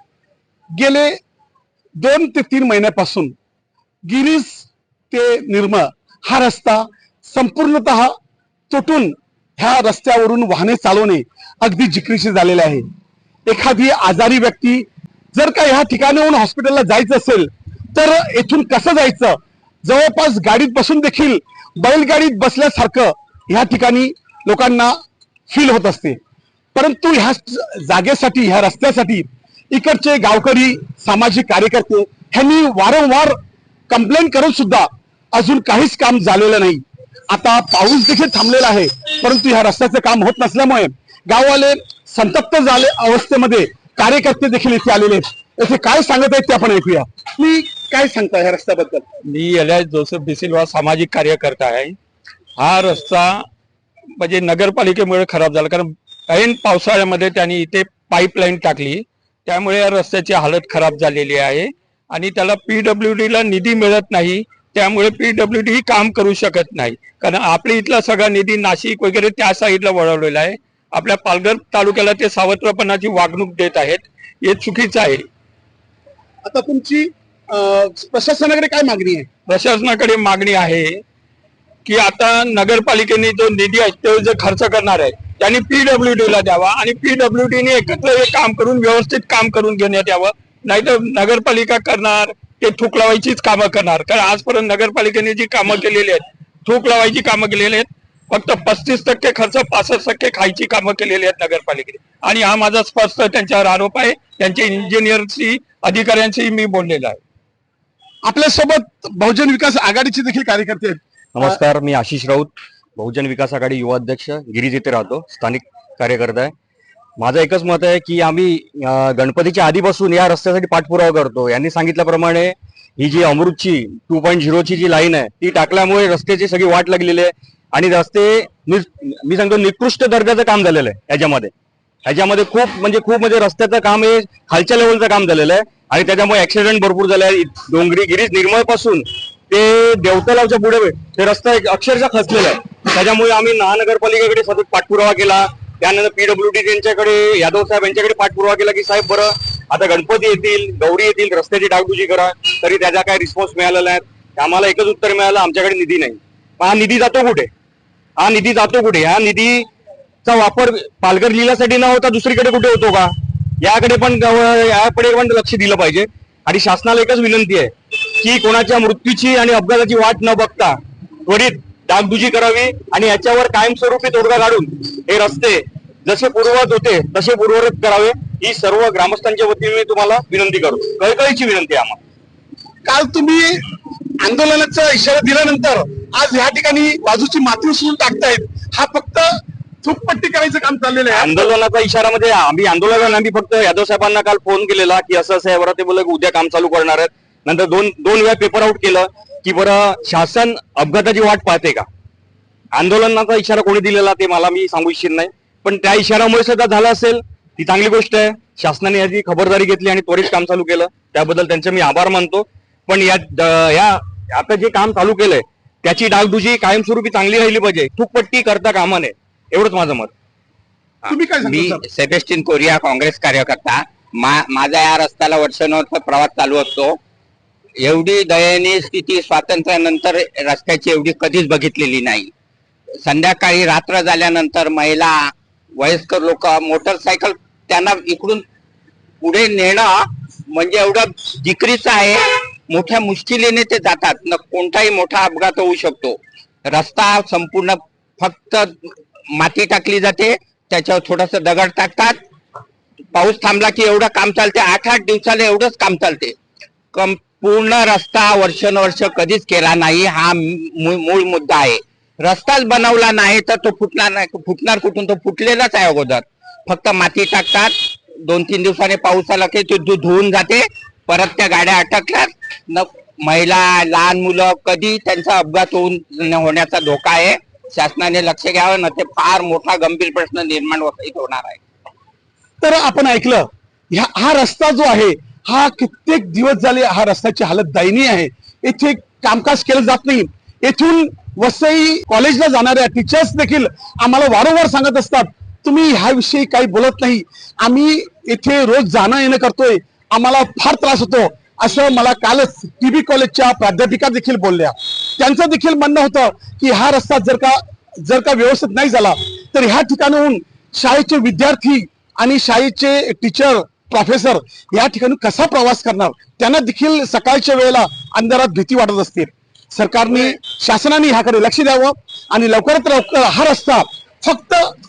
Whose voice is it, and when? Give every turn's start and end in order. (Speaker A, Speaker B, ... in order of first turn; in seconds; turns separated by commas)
Speaker A: 0.7-1.2, Speaker A: 2.0-3.3, Speaker A: 4.1-8.1, Speaker A: 8.7-12.8, Speaker A: 13.5-24.9, Speaker A: 25.5-26.2, Speaker A: 26.8-33.4, Speaker A: 33.9-49.0, Speaker B: 49.2-52.0, Speaker B: 52.6-53.5, Speaker B: 54.2-75.2, Speaker A: 76.5-79.3, Speaker B: 79.5-81.0, Speaker B: 81.8-107.2, Speaker A: 108.2-111.0, Speaker C: 111.3-116.5, Speaker C: 117.2-131.5, Speaker C: 132.1-157.5, Speaker C: 158.2-159.7, Speaker C: 160.2-182.0, Speaker A: 182.8-183.6, Speaker A: 184.2-189.3, Speaker A: 189.8-191.5, Speaker C: 191.1-201.9, Speaker C: 202.7-220.1, Speaker D: 221.0-227.0, Speaker A: 221.1-221.8, Speaker D: 227.8-232.3, Speaker D: 233.0-238.4, Speaker D: 239.2-252.2, Speaker D: 253.1-256.4, Speaker D: 256.9-281.6, Speaker A: 282.6-324.7